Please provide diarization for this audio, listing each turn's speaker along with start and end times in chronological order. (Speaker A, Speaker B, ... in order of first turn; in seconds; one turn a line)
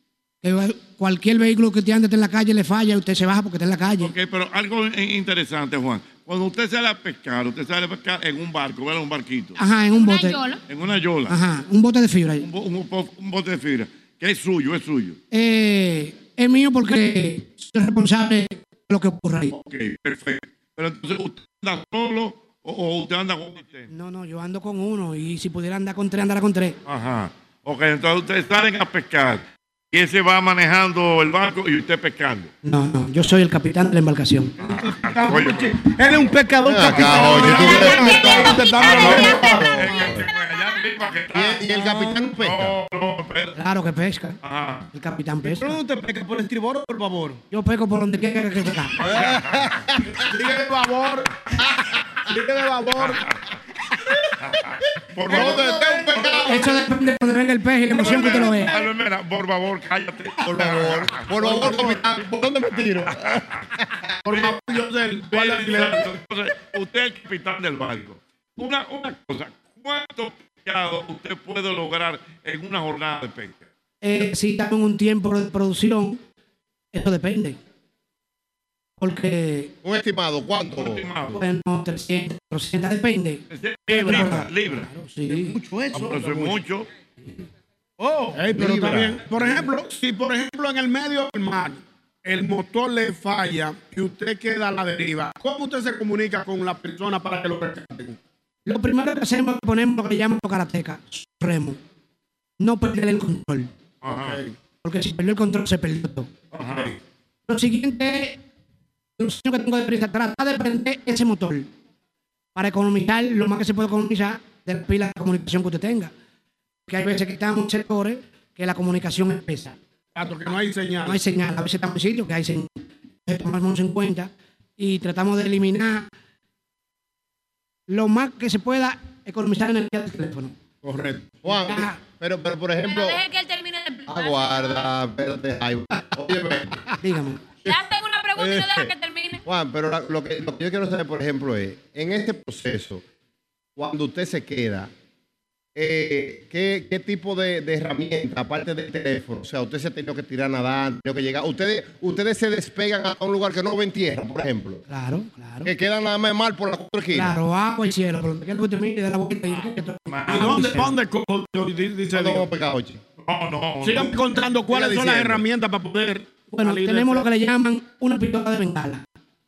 Speaker A: 0.4-4.1
Speaker B: 4.0-9.6
Speaker A: 9.6-10.4
Speaker C: 9.9-10.6
Speaker B: 10.7-11.3
Speaker A: 11.3-12.4
Speaker B: 12.4-15.2
Speaker A: 15.3-19.5
Speaker B: 19.5-23.9
Speaker A: 23.9-26.8
Speaker B: 26.9-32.5
Speaker A: 32.6-34.5
Speaker D: 34.6-39.7
Speaker B: 34.6-35.7
Speaker E: 36.6-40.3
Speaker B: 36.9-43.5
Speaker F: 37.5-38.5
Speaker E: 41.3-42.7
Speaker A: 43.5-44.4
Speaker B: 44.4-44.9
Speaker A: 44.9-45.8
Speaker D: 45.4-47.4
Speaker A: 47.5-49.0
Speaker E: 49.0-50.1
Speaker B: 49.0-49.6
Speaker F: 50.3-51.3
Speaker F: 52.3-53.2
Speaker B: 54.4-56.4
Speaker E: 55.3-56.7
Speaker F: 55.3-56.4
Speaker A: 56.5-58.7
Speaker B: 58.0-61.6
Speaker E: 60.4-63.9
Speaker F: 61.4-61.9
Speaker B: 63.2-63.6
Speaker F: 64.2-66.1
Speaker B: 64.3-64.6
Speaker B: 65.3-73.6
Speaker A: 74.0-76.2
Speaker A: 76.9-77.6
Speaker A: 79.0-79.7
Speaker E: 79.8-81.0
Speaker B: 80.8-81.4
Speaker A: 81.3-85.5
Speaker B: 83.5-84.9
Speaker D: 85.3-86.5
Speaker B: 85.9-86.9
Speaker D: 88.0-88.4
Speaker F: 88.3-98.2
Speaker E: 88.5-89.2
Speaker A: 98.7-101.8
Speaker A: 102.6-103.7
Speaker B: 104.0-104.4
Speaker F: 104.1-104.4
Speaker A: 104.8-106.3
Speaker B: 106.5-106.9
Speaker A: 107.5-108.4
Speaker A: 109.2-111.7
Speaker A: 112.5-116.1
Speaker A: 116.9-119.8
Speaker F: 120.2-121.2
Speaker A: 121.0-122.7
Speaker A: 123.2-126.1
Speaker A: 127.9-130.6
Speaker F: 130.8-131.3
Speaker E: 131.4-133.2
Speaker A: 131.5-132.0
Speaker C: 132.8-134.7
Speaker E: 134.1-136.8
Speaker A: 137.0-137.5
Speaker C: 137.6-139.4
Speaker E: 138.3-138.9
Speaker E: 139.4-143.0
Speaker E: 143.8-144.9
Speaker E: 145.7-154.8
Speaker A: 154.9-155.7
Speaker E: 155.6-157.3
Speaker A: 157.1-160.9
Speaker B: 160.1-160.7
Speaker F: 160.3-162.5
Speaker E: 162.1-163.0
Speaker B: 163.2-164.2
Speaker F: 163.8-167.2
Speaker E: 164.7-165.4
Speaker A: 166.5-169.0